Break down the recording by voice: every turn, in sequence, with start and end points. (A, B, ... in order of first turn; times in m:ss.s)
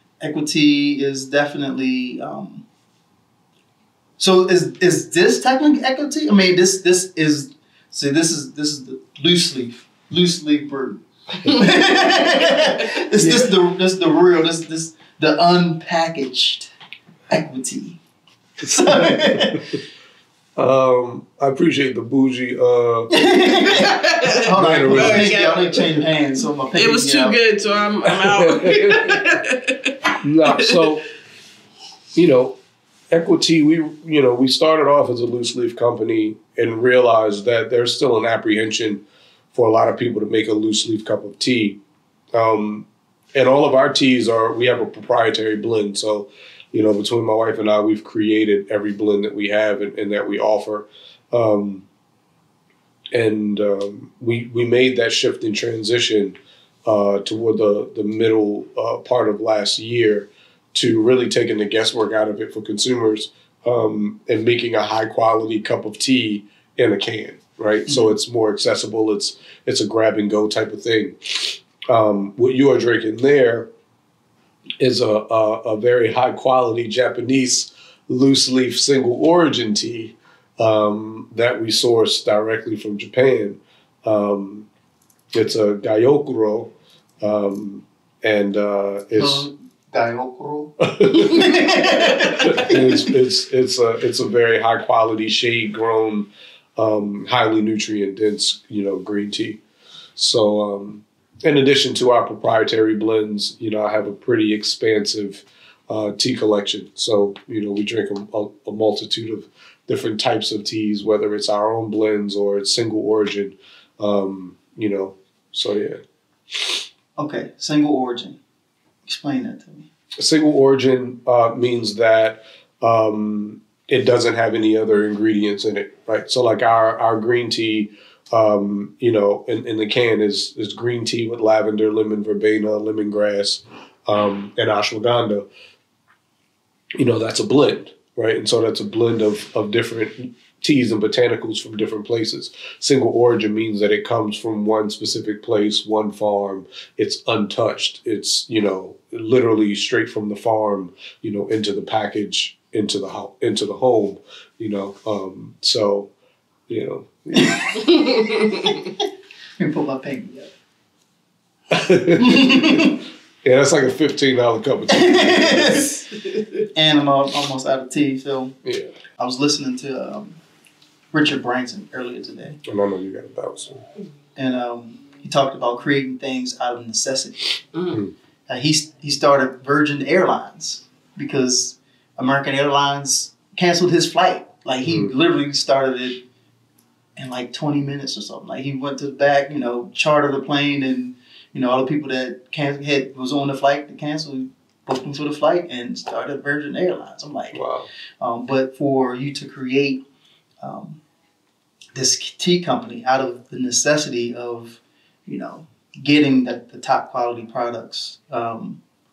0:00.2-0:02.6 A
0:04.2-0:16.7 A
0:17.3-0:18.0 A
0:18.6-0:19.6 A
0:18.6-0:19.6 B
0:20.6-0:23.7 B
0:23.1-0:27.4 A
0:23.8-0:26.2 C
0:24.6-0:25.6 B
0:26.7-0:29.9 C
0:28.1-0:29.3 B
0:30.2-0:31.0 B
0:30.4-0:30.8 C
0:32.2-0:32.6 B
0:33.1-0:41.8 B
0:42.3-0:51.8 B
0:53.1-1:13.7 B
1:07.9-1:08.2 A
1:14.8-1:24.7 B
1:25.3-1:29.5 B
1:29.2-1:33.0 A
1:30.8-1:31.5 B
1:32.5-1:39.6 B
1:40.2-1:56.0 B
1:57.2-1:58.4 A
1:59.0-1:59.9 A
2:00.2-2:15.4 B
2:17.0-2:36.1 B
2:36.7-2:37.6 B
2:37.3-2:37.7 A
2:37.9-2:38.7 C
2:38.2-2:38.7 A
2:39.6-2:40.5 A
2:41.7-2:45.9 B
2:42.2-2:43.0 A
2:44.9-2:46.0 A
2:46.7-2:48.6 A
2:48.6-2:48.9 B
2:49.2-2:50.4 A
2:51.1-2:52.6 A
2:52.6-2:53.8 B
2:54.4-2:57.6 A
2:58.5-3:06.2 A
3:04.8-3:05.1 B
3:07.2-3:17.6 A
3:17.5-3:17.9 B
3:18.2-3:20.0 A
3:20.6-3:21.0 A
3:21.9-3:28.8 A